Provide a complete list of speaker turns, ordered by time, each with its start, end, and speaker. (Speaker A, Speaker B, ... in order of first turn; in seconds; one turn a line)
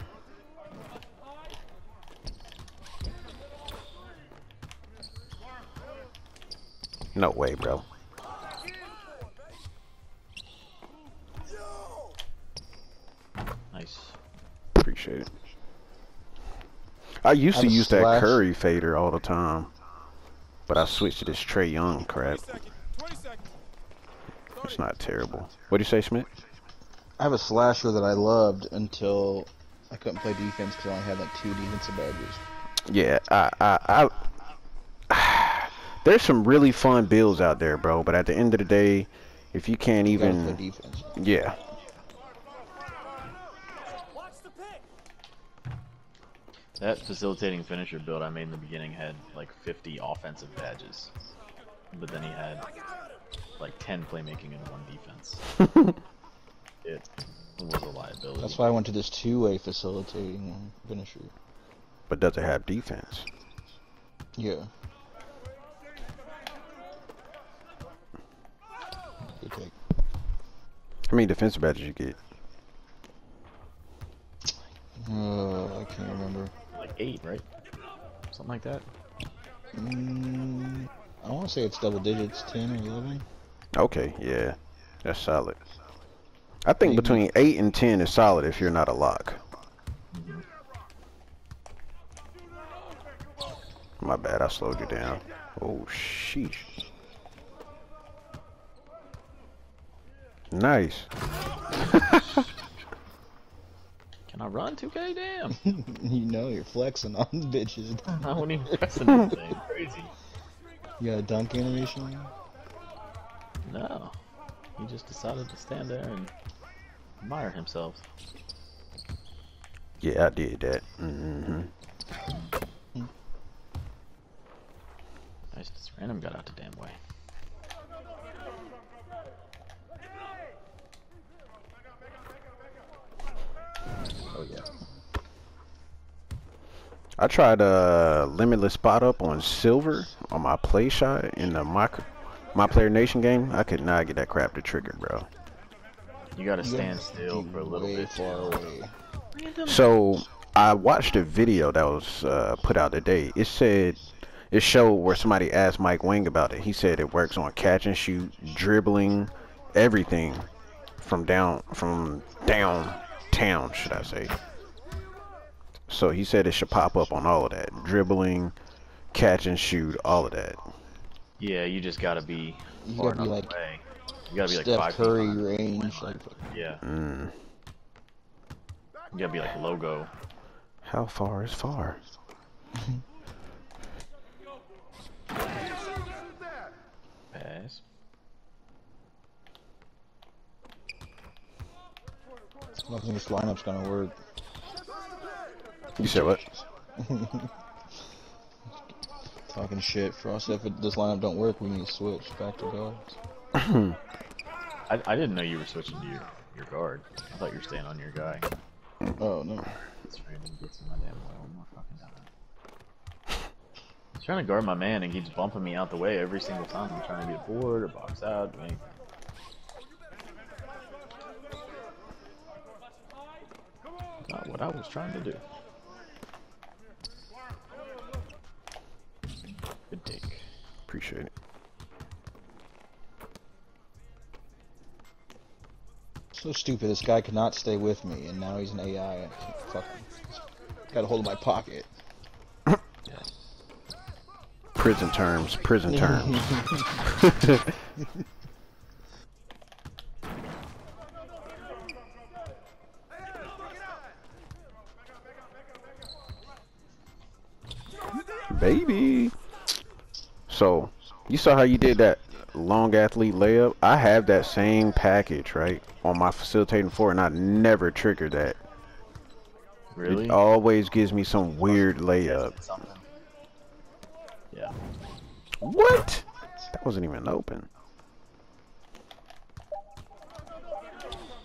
Speaker A: 7.1-7.8
Speaker B: 13.7-14.2
Speaker A: 14.8-15.3
Speaker A: 17.2-19.7
Speaker C: 17.5-18.4
Speaker A: 20.7-22.7
Speaker A: 24.6-26.3
Speaker C: 27.2-32.4
Speaker A: 32.9-34.3
Speaker A: 35.1-40.6
Speaker C: 40.1-41.1
Speaker A: 41.1-41.6
Speaker B: 46.8-51.1
Speaker B: 51.9-52.7
Speaker B: 53.6-55.4
Speaker B: 56.8-58.6
Speaker C: 58.4-61.3
Speaker A: 62.1-63.3
Speaker C: 64.3-64.7
Speaker C: 69.4-69.8
Speaker A: 71.1-72.2
Speaker C: 75.0-76.5
Speaker B: 76.7-77.4
Speaker B: 78.3-78.9
Speaker C: 79.7-83.2
Speaker A: 83.7-85.6
Speaker A: 86.6-89.4
Speaker C: 86.8-87.3
Speaker B: 90.1-90.4
Speaker A: 94.0-96.7
Speaker A: 100.5-101.1
Speaker A: 101.8-102.4
Speaker B: 104.3-105.6
Speaker C: 105.6-109.3
Speaker B: 108.1-110.1
Speaker C: 111.0-112.3
Speaker B: 113.6-114.1
Speaker B: 114.8-116.3
Speaker B: 117.2-118.0
Speaker A: 120.0-121.7
Speaker B: 125.5-127.0
Speaker B: 134.3-134.7
Speaker A: 137.2-145.3
Speaker B: 146.3-148.6
Speaker C: 146.6-148.9
Speaker B: 149.3-149.9
Speaker A: 149.6-164.3
Speaker A: 165.9-168.5
Speaker A: 169.1-170.7
Speaker B: 171.4-176.8
Speaker C: 172.8-173.5
Speaker C: 174.5-176.4
Speaker A: 176.8-177.3
Speaker B: 179.1-180.1
Speaker A: 180.8-182.0
Speaker C: 182.8-183.0
Speaker B: 187.3-187.8
Speaker C: 192.8-194.1
Speaker A: 196.0-196.4
Speaker C: 196.0-197.5
Speaker C: 199.5-203.2
Speaker A: 203.5-204.0
Speaker B: 204.9-208.5
Speaker C: 209.2-209.7
Speaker B: 210.0-212.3
Speaker B: 214.2-218.9
Speaker B: 224.3-225.4
Speaker B: 229.9-230.4
Speaker A: 230.9-231.3
Speaker C: 236.3-241.9
Speaker A: 244.8-247.8
Speaker C: 245.9-247.0
Speaker A: 258.5-259.3
Speaker A: 260.5-268.6
Speaker B: 269.9-270.4
Speaker A: 270.0-272.5
Speaker B: 271.7-273.0
Speaker A: 275.6-277.7